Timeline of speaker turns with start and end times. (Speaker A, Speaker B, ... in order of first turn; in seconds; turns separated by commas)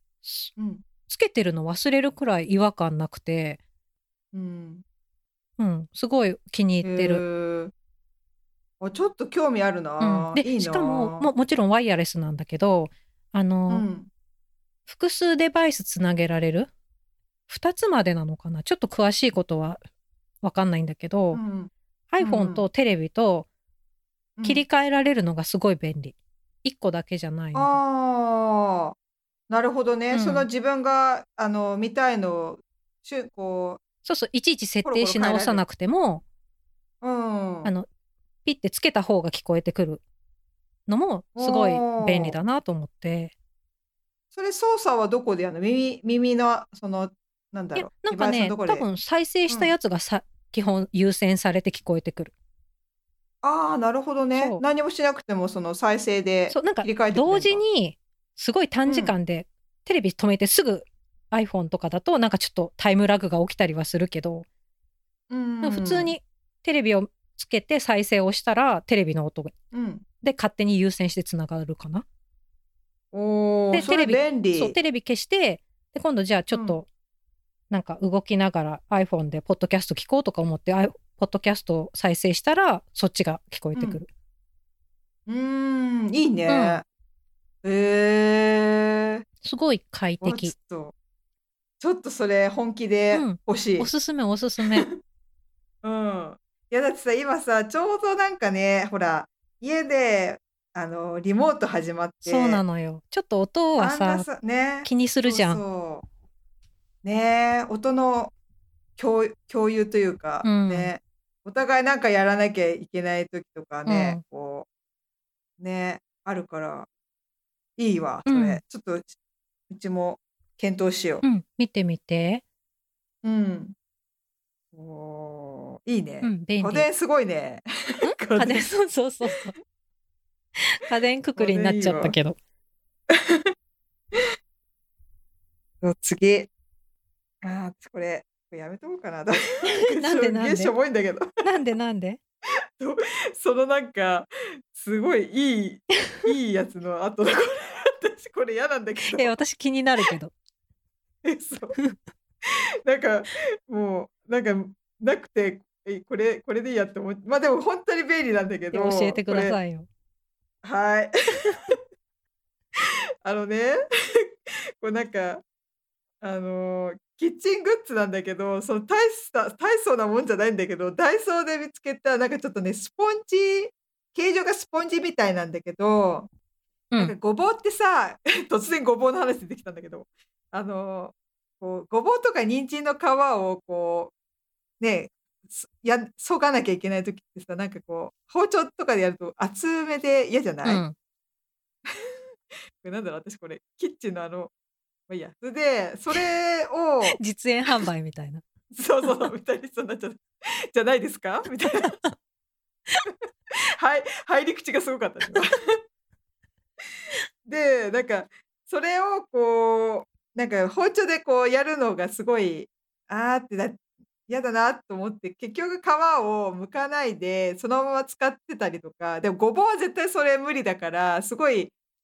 Speaker A: 0.2-0.5, Speaker B: 0.6-0.8, Speaker A: 1.1-3.6, Speaker B: 4.3-4.8, Speaker A: 5.6-7.2, Speaker B: 6.8-7.7, Speaker B: 8.8-11.3, Speaker A: 10.0-13.8, Speaker B: 13.7-14.1, Speaker A: 14.9-16.7, Speaker A: 17.5-19.8, Speaker A: 20.4-21.4, Speaker B: 21.3-22.6, Speaker A: 22.1-23.5, Speaker B: 24.4-24.6, Speaker A: 24.4-27.8, Speaker B: 27.5-28.9, Speaker B: 29.5-33.8, Speaker A: 30.1-30.4, Speaker A: 34.0-36.2, Speaker B: 34.8-35.6, Speaker B: 37.0-37.7, Speaker A: 38.4-40.0, Speaker A: 40.9-43.3, Speaker B: 41.4-42.4, Speaker B: 44.3-48.9, Speaker A: 47.7-52.3, Speaker B: 49.5-49.7, Speaker B: 53.4-57.6, Speaker A: 54.3-54.6, Speaker A: 56.5-64.5, Speaker B: 58.9-59.1, Speaker B: 65.3-66.2, Speaker A: 65.6-69.5, Speaker B: 69.7-70.0, Speaker A: 70.2-72.0, Speaker B: 73.1-74.8, Speaker A: 73.7-76.8, Speaker B: 76.5-76.8, Speaker A: 77.7-84.1, Speaker B: 83.7-84.0, Speaker B: 85.3-86.8, Speaker A: 86.5-86.8, Speaker B: 87.6-89.2, Speaker A: 89.4-90.5, Speaker B: 90.2-90.9, Speaker B: 91.8-93.9, Speaker A: 93.1-94.8, Speaker B: 94.7-95.0, Speaker B: 95.8-102.6, Speaker A: 102.2-104.3, Speaker B: 103.8-106.0, Speaker A: 104.8-105.6, Speaker B: 107.0-108.3, Speaker B: 109.0-114.7, Speaker A: 110.4-110.9, Speaker A: 113.8-114.2, Speaker B: 115.6-116.9, Speaker B: 117.8-119.1, Speaker A: 118.3-118.6, Speaker B: 119.7-121.2, Speaker A: 121.2-122.4, Speaker B: 123.2-123.7, Speaker B: 124.7-127.6, Speaker A: 126.2-126.9, Speaker A: 128.0-129.5, Speaker B: 128.2-128.7, Speaker A: 130.6-132.4, Speaker B: 131.3-132.2, Speaker B: 133.1-133.5, Speaker B: 135.8-136.5, Speaker B: 137.4-141.2, Speaker A: 139.6-140.7, Speaker A: 141.4-142.2, Speaker B: 142.8-149.4, Speaker A: 149.0-150.3, Speaker B: 151.2-151.8, Speaker B: 152.8-159.6, Speaker A: 158.7-159.9, Speaker B: 160.6-161.8, Speaker B: 163.2-163.8, Speaker B: 164.8-165.4, Speaker B: 166.2-176.3, Speaker B: 177.0-184.1, Speaker B: 184.8-190.8, Speaker A: 190.6-190.9, Speaker B: 192.8-194.5, Speaker B: 195.1-197.2, Speaker A: 197.2-198.4, Speaker B: 198.7-202.0, Speaker A: 201.6-202.1, Speaker B: 203.6-205.7, Speaker B: 207.4-221.7